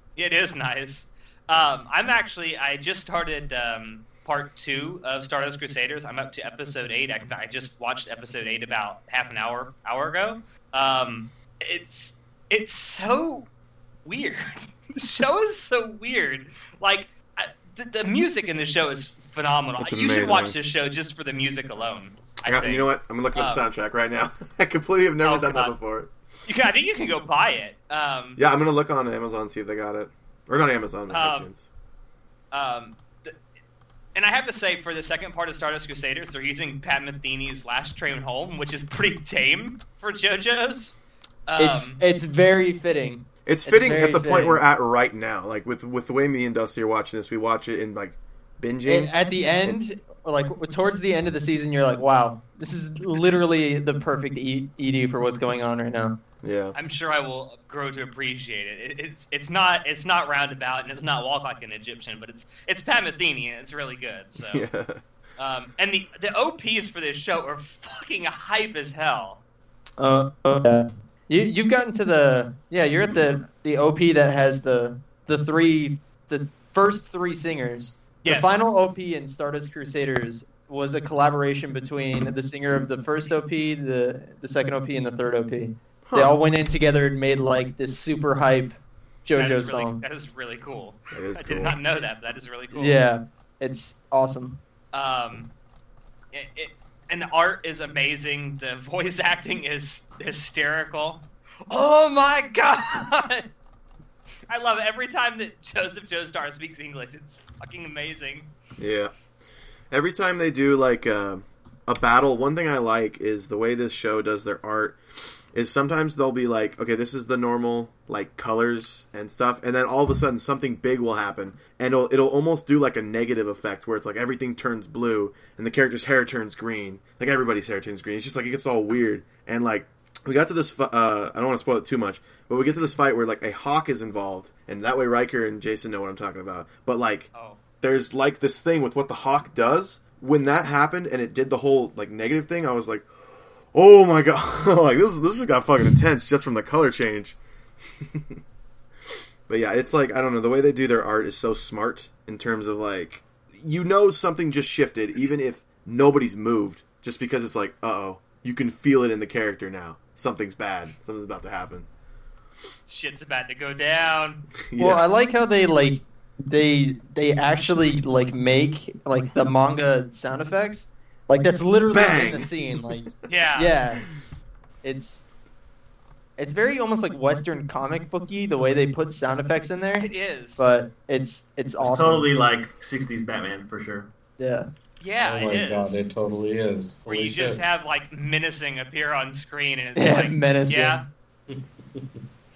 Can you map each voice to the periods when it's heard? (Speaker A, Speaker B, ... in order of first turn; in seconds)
Speaker A: 0.1-13.5, 14.0-23.6, 25.2-25.7, 26.5-28.4, 31.1-31.5, 32.5-33.4, 34.1-40.9, 41.5-42.0, 56.7-64.6, 65.4-69.4, 78.2-78.7, 89.3-93.0, 94.9-95.5, 96.3-103.5, 104.5-108.5, 137.3-137.6, 162.9-164.4, 173.3-173.8, 180.0-180.6, 185.0-186.0, 187.1-191.0
Speaker B: 19.8-20.6, 22.4-26.1, 28.4-31.6, 43.5-49.1, 56.4-56.8, 64.4-65.0, 86.0-86.3, 91.1-91.8, 108.8-109.1, 109.9-115.0, 115.5-137.3, 137.8-143.1, 143.7-147.4, 148.0-148.4, 149.5-161.9, 164.7-165.0, 171.9-172.8
Speaker C: 41.6-44.6, 48.9-56.1, 70.0-90.0, 92.7-94.6, 164.8-174.0, 174.8-175.2, 176.4-182.3, 184.4-184.7, 189.9-191.0
Speaker D: 181.8-184.1
Speaker E: 185.2-187.6, 191.5-192.2